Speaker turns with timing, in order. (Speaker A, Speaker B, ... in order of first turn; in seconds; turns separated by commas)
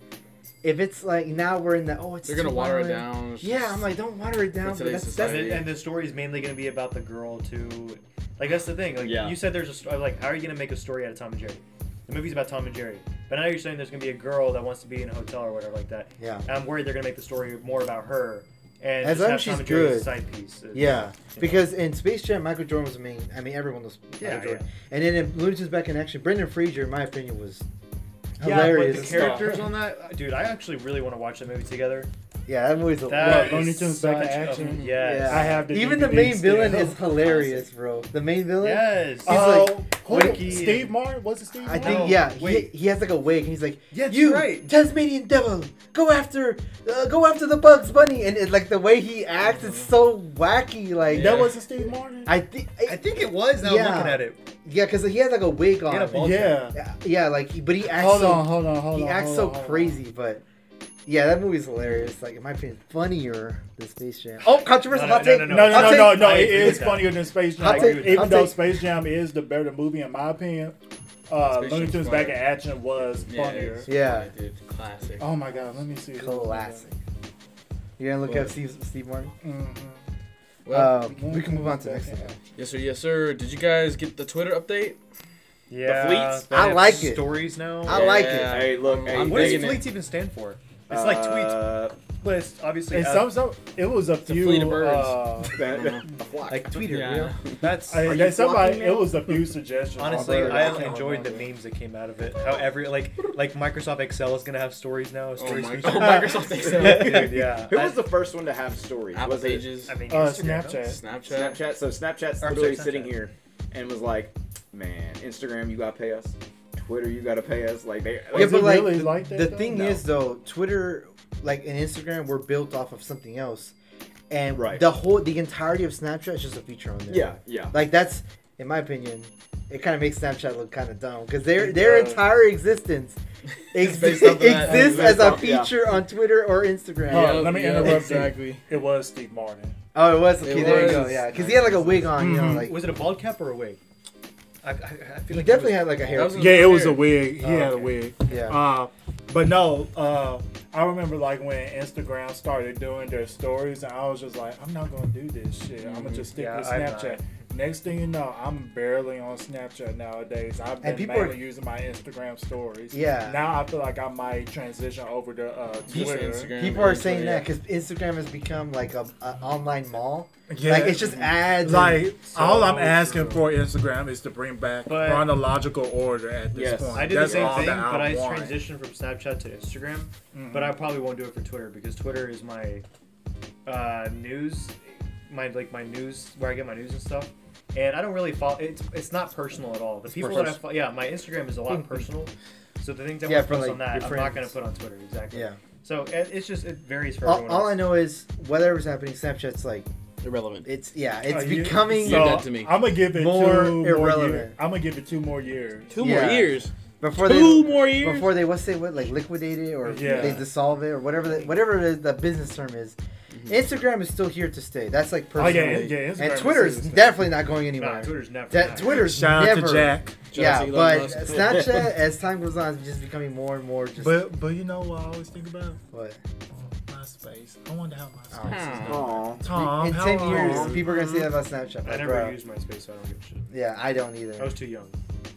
Speaker A: 0.6-5.7, Speaker B: 2.2-3.8, Speaker B: 4.6-5.7, Speaker C: 5.2-21.6, Speaker D: 9.0-9.4, Speaker A: 16.2-16.4, Speaker A: 19.0-20.1, Speaker A: 20.7-27.6, Speaker C: 24.2-24.7, Speaker A: 28.4-29.6, Speaker C: 28.4-32.1, Speaker E: 28.4-29.6, Speaker A: 32.5-33.8, Speaker C: 33.0-35.6, Speaker E: 33.1-37.0, Speaker B: 34.6-35.0, Speaker A: 35.0-40.7, Speaker B: 37.2-37.6, Speaker C: 38.6-40.9, Speaker E: 39.2-42.2, Speaker A: 41.6-51.5, Speaker C: 41.7-42.7, Speaker C: 43.9-44.7, Speaker C: 49.5-49.8, Speaker B: 51.1-51.6, Speaker E: 51.1-52.4, Speaker A: 52.2-53.0, Speaker C: 52.8-54.4, Speaker A: 53.6-60.4, Speaker C: 55.9-56.7, Speaker E: 56.1-56.8, Speaker E: 57.8-60.0, Speaker A: 61.0-66.9, Speaker C: 64.4-68.5, Speaker E: 65.5-70.8, Speaker A: 67.6-68.7, Speaker E: 71.3-73.9, Speaker B: 71.4-72.4, Speaker B: 73.2-75.3, Speaker A: 73.8-74.3, Speaker E: 75.2-76.8, Speaker A: 76.2-77.0, Speaker A: 78.0-79.3, Speaker E: 79.4-80.0, Speaker B: 80.6-81.0, Speaker A: 80.7-82.3, Speaker E: 81.0-82.4, Speaker B: 82.5-85.0, Speaker C: 85.7-88.2, Speaker D: 85.8-86.8, Speaker A: 86.5-88.7, Speaker B: 87.9-89.9, Speaker D: 88.0-89.8, Speaker C: 89.1-91.6, Speaker D: 90.9-91.9, Speaker C: 92.2-93.4, Speaker E: 92.9-95.6, Speaker B: 94.2-96.1, Speaker D: 95.5-96.8, Speaker A: 96.5-97.4, Speaker B: 96.8-97.5, Speaker C: 97.6-98.3, Speaker E: 97.6-101.5, Speaker D: 98.0-99.1, Speaker C: 100.0-108.0, Speaker A: 100.0-101.3, Speaker B: 105.4-107.3, Speaker D: 106.6-109.7, Speaker B: 109.1-110.0, Speaker C: 109.8-110.9, Speaker E: 110.1-111.0, Speaker B: 110.8-111.6, Speaker D: 111.3-118.8, Speaker C: 112.4-113.1, Speaker E: 118.3-120.0, Speaker A: 118.3-123.7, Speaker A: 124.3-133.2, Speaker D: 124.5-124.8, Speaker D: 127.1-127.7, Speaker E: 131.5-132.2, Speaker A: 133.7-138.0, Speaker B: 133.7-135.5, Speaker C: 134.2-135.4, Speaker D: 134.8-135.8, Speaker E: 137.1-139.8, Speaker B: 137.1-138.6, Speaker A: 139.9-142.8, Speaker B: 140.4-141.6, Speaker C: 140.5-143.8, Speaker E: 142.1-142.7, Speaker C: 144.6-146.3, Speaker A: 145.3-146.8, Speaker B: 146.1-147.1, Speaker E: 146.3-166.5, Speaker C: 147.4-148.1, Speaker A: 148.3-148.6, Speaker B: 155.8-156.3, Speaker C: 156.3-157.2, Speaker A: 160.8-161.4, Speaker A: 162.9-163.4, Speaker B: 165.9-167.5, Speaker A: 165.9-172.1, Speaker E: 170.5-178.6, Speaker C: 172.2-173.5, Speaker C: 174.9-175.3, Speaker D: 176.5-177.9, Speaker C: 176.9-182.8, Speaker E: 180.3-180.8, Speaker C: 183.7-197.8, Speaker A: 190.2-190.6, Speaker B: 190.2-190.6, Speaker A: 191.7-192.0, Speaker A: 193.2-194.5, Speaker A: 195.3-195.6, Speaker A: 197.2-199.9, Speaker B: 200.2-200.7, Speaker A: 200.6-204.6, Speaker E: 201.3-206.0, Speaker B: 202.0-202.7, Speaker B: 205.9-208.5, Speaker A: 206.0-224.3, Speaker E: 209.8-210.5, Speaker B: 210.0-210.4, Speaker B: 213.3-213.6, Speaker E: 215.3-217.3, Speaker B: 215.4-216.0, Speaker C: 217.8-219.1, Speaker E: 218.7-220.2, Speaker B: 220.3-221.8, Speaker D: 221.3-221.8, Speaker E: 224.0-225.8, Speaker A: 225.9-226.2, Speaker E: 226.6-231.0, Speaker A: 228.3-232.3, Speaker B: 228.4-229.0, Speaker D: 228.9-229.5, Speaker B: 230.3-231.3, Speaker C: 231.8-233.5, Speaker A: 233.5-234.5, Speaker C: 234.4-234.9